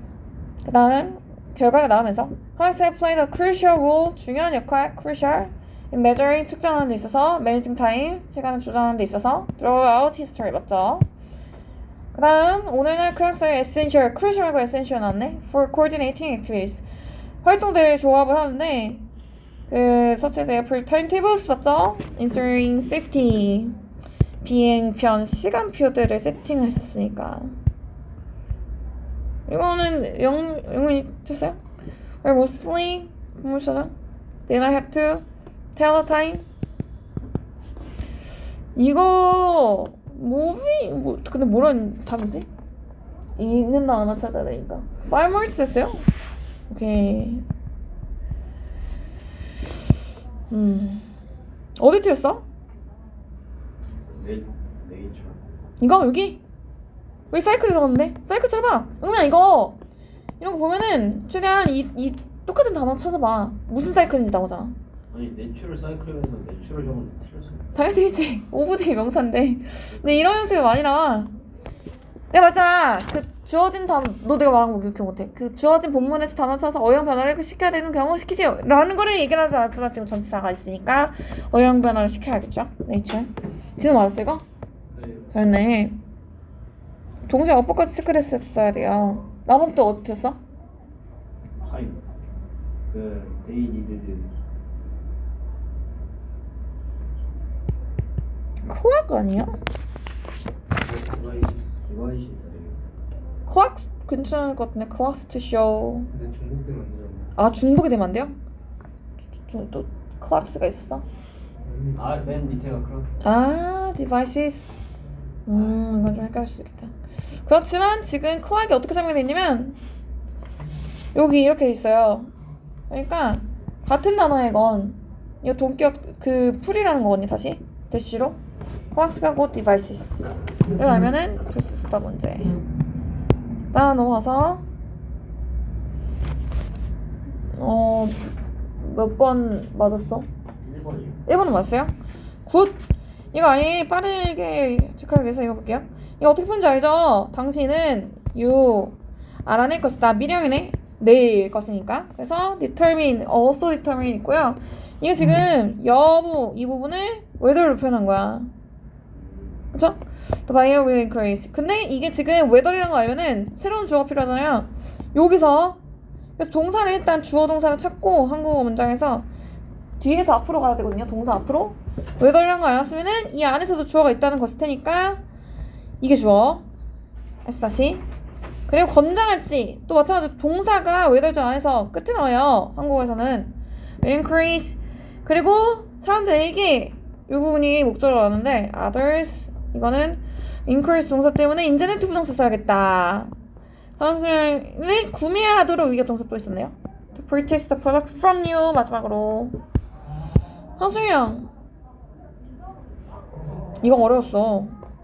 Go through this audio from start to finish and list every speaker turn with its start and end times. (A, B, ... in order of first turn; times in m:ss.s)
0:00.6-0:11.1 A
0:12.1-0:16.8 A
0:17.4-0:19.0 A
0:19.7-0:23.8 A
0:24.4-0:27.5 A
0:29.5-0:31.6 A
0:32.2-0:33.9 A
0:34.5-0:35.2 A
0:35.8-0:36.4 A
0:38.8-0:42.5 A
0:43.4-0:46.1 A
0:46.7-0:47.4 A
0:50.5-0:51.1 A
0:51.8-0:52.4 A
0:54.1-0:55.4 B
0:55.8-0:56.4 A
0:57.3-0:59.8 A
1:00.4-1:04.8 A
1:05.1-1:07.7 B
1:07.8-1:11.3 A
1:09.9-1:10.4 B
1:12.3-1:24.4 A
1:24.9-1:25.3 B
1:25.3-1:26.0 A
1:27.3-1:30.4 A
1:31.6-1:32.0 B
1:32.9-1:34.3 B
1:38.6-1:39.6 A
1:40.8-1:41.8 C
1:41.8-1:42.8 B
1:43.5-1:46.1 A
1:46.1-1:47.3 C
1:47.4-1:48.4 A
1:49.5-1:51.0 A
1:51.6-1:52.4 C
1:52.0-1:53.2 B
1:53.2-1:54.8 A
1:55.5-1:56.9 A
1:55.5-1:55.8 B
1:57.5-1:59.8 A
2:01.2-2:02.3 A
2:02.9-2:08.4 A
2:08.9-2:12.6 A
2:13.7-2:14.6 A
2:17.6-2:18.2 A
2:18.8-2:20.3 A
2:20.6-2:21.2 B
2:21.3-2:21.9 A
2:22.5-2:22.8 A
2:23.3-2:38.5 A
2:39.1-2:39.7 B
2:39.7-2:45.8 A
2:46.4-2:49.3 A
2:50.0-2:55.2 A
2:56.0-2:56.6 A
2:57.4-2:58.0 A
2:58.7-3:13.3 A
3:14.0-3:19.6 A
3:20.8-3:21.5 A
3:23.8-3:24.8 A